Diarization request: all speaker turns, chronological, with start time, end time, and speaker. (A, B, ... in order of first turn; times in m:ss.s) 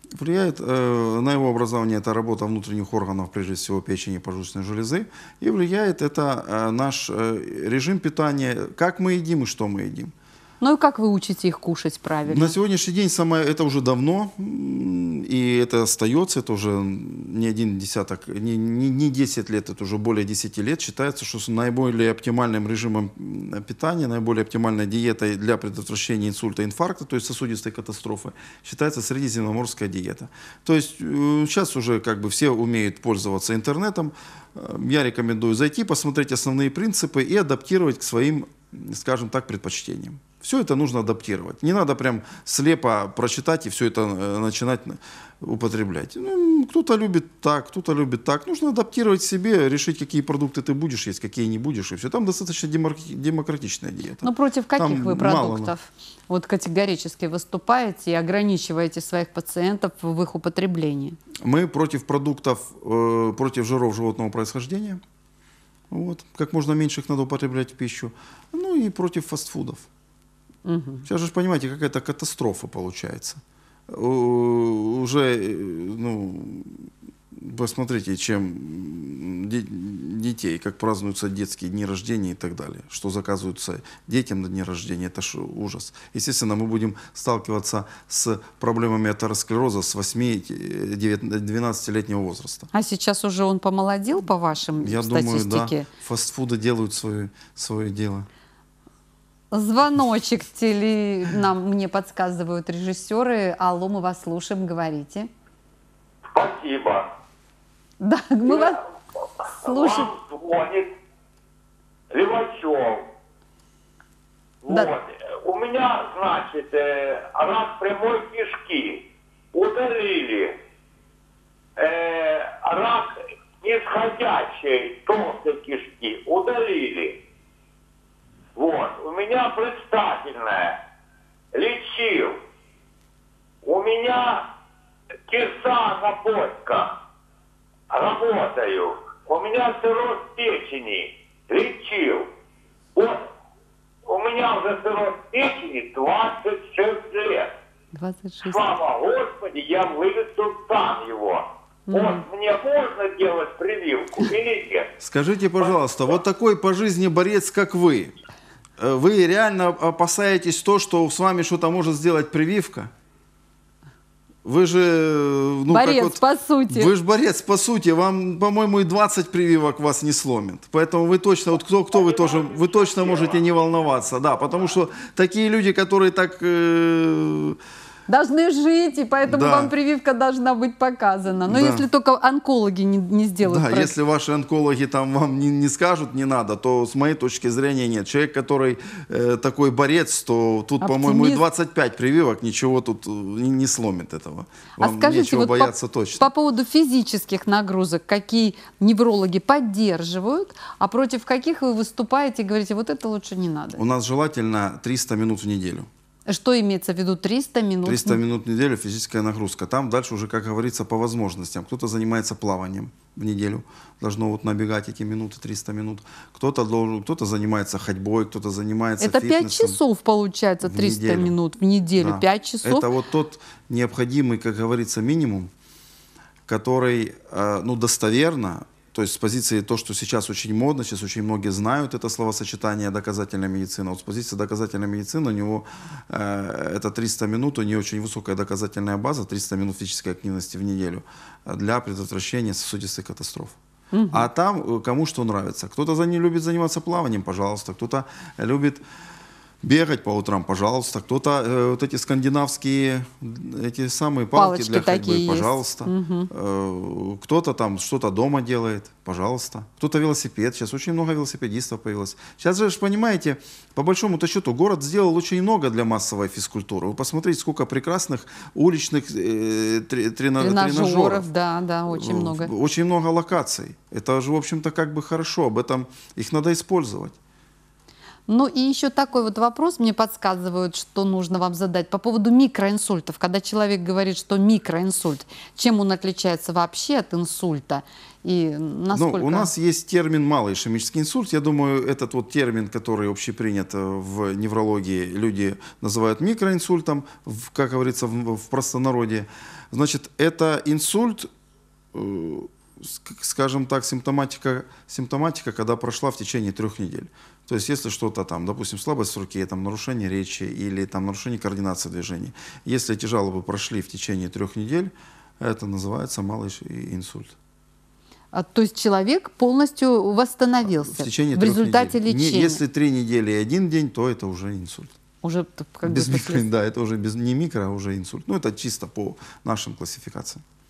0:00.2-0:10.1 A
0:10.6-0:12.5 B
0:12.3-0:55.7 A
0:54.2-1:01.2 B
1:01.4-1:05.0 A
1:05.9-1:09.9 A
1:10.6-1:11.0 B
1:11.1-1:32.7 A
1:32.7-1:35.9 B
1:34.8-1:38.3 A
1:39.5-1:45.3 B
1:46.3-1:47.1 C
1:48.0-1:48.8 B
1:48.5-1:48.7 C
1:49.6-1:50.1 B
1:49.6-1:50.9 C
1:52.1-1:53.0 C
1:54.6-2:00.5 C
2:01.8-2:03.1 C
2:03.6-2:07.2 C
2:08.6-2:10.7 C
2:11.5-2:12.4 C
2:13.6-2:14.4 C
2:15.3-2:16.9 C
2:17.9-2:22.3 C
2:22.9-2:23.3 C
2:24.0-2:27.5 C
2:27.9-2:28.7 B
2:28.4-2:34.9 C
2:31.9-2:32.2 B
2:35.0-2:38.1 A
2:38.8-2:42.9 A
2:44.4-2:57.6 A
2:45.7-2:46.9 B
2:52.0-2:53.4 C
2:58.1-3:03.9 B
2:59.2-2:59.7 A
3:01.4-3:01.8 A
3:03.4-3:16.3 A
3:10.8-3:11.4 B
3:14.8-3:23.8 B
3:23.8-3:25.9 A
3:26.3-3:28.2 B
3:27.8-3:39.8 A
3:39.0-3:42.9 B
3:40.6-3:41.3 A
3:42.0-3:45.5 A
3:46.5-4:03.6 A
4:03.9-4:04.3 B
4:04.1-4:08.8 A
4:09.6-4:31.2 A
4:14.3-4:16.3 B
4:30.4-4:32.5 B
4:31.9-4:37.1 A
4:38.3-4:49.5 B
4:48.9-5:01.3 A
5:01.9-5:17.3 A
5:18.3-5:22.6 B
5:20.7-5:24.9 A
5:25.2-5:26.4 B
5:25.8-5:30.4 A